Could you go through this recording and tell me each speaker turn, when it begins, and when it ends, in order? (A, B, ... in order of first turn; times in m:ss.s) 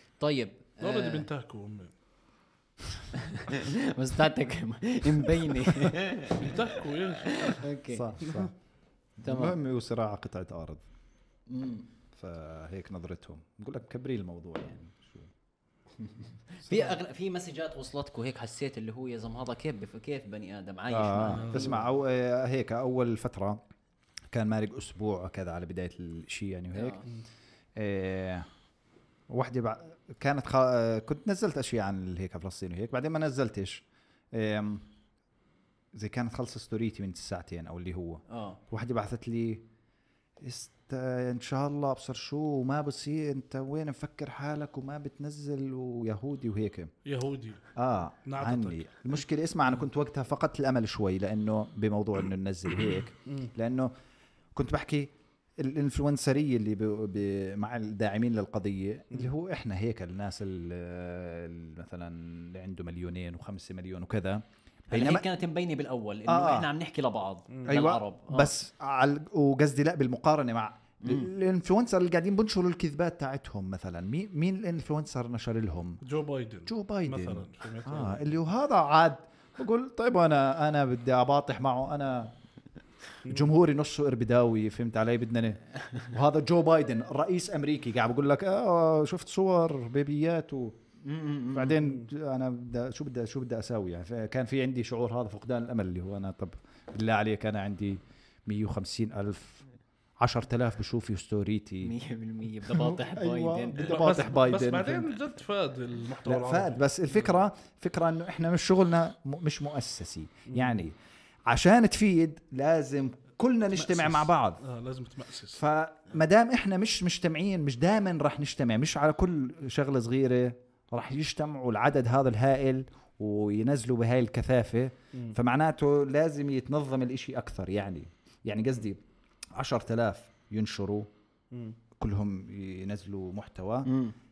0:00.2-0:01.3 A
0:00.8-0:01.9 B
0:03.1-0:08.1 A
0:06.3-0:07.6 B
0:07.9-0:08.5 C
0:09.2-0:10.8 C
0:09.2-0:09.6 A
0:11.5-0:11.9 A
0:12.2-0:15.3 C
0:16.0-0:21.8 A
0:16.7-0:17.0 C
0:20.9-0:23.6 C
0:21.3-0:21.8 B
0:24.3-0:27.0 C
0:26.7-0:27.0 A
0:27.8-0:28.5 C
0:29.3-0:34.9 C
0:35.9-0:39.6 C
0:38.3-0:38.6 A
0:40.4-0:46.9 C
0:47.1-0:47.6 B
0:47.8-0:53.9 C
0:48.3-0:49.2 B
0:54.6-1:05.3 C
1:04.9-1:08.5 A
1:06.3-1:06.7 C
1:07.7-1:16.0 C
1:11.0-1:11.3 A
1:16.0-1:18.3 B
1:16.7-1:22.4 C
1:23.2-1:30.8 C
1:31.0-1:31.8 A
1:31.5-1:39.6 C
1:40.2-1:41.9 C
1:41.8-1:44.1 A
1:42.7-1:45.2 C
1:43.8-1:47.3 B
1:46.2-1:51.0 C
1:50.5-1:50.8 B
1:51.5-1:54.6 C
1:53.8-1:55.6 B
1:55.5-2:09.0 C
2:09.6-2:11.1 C
2:11.5-2:11.8 B
2:12.0-2:13.9 C
2:13.9-2:14.1 A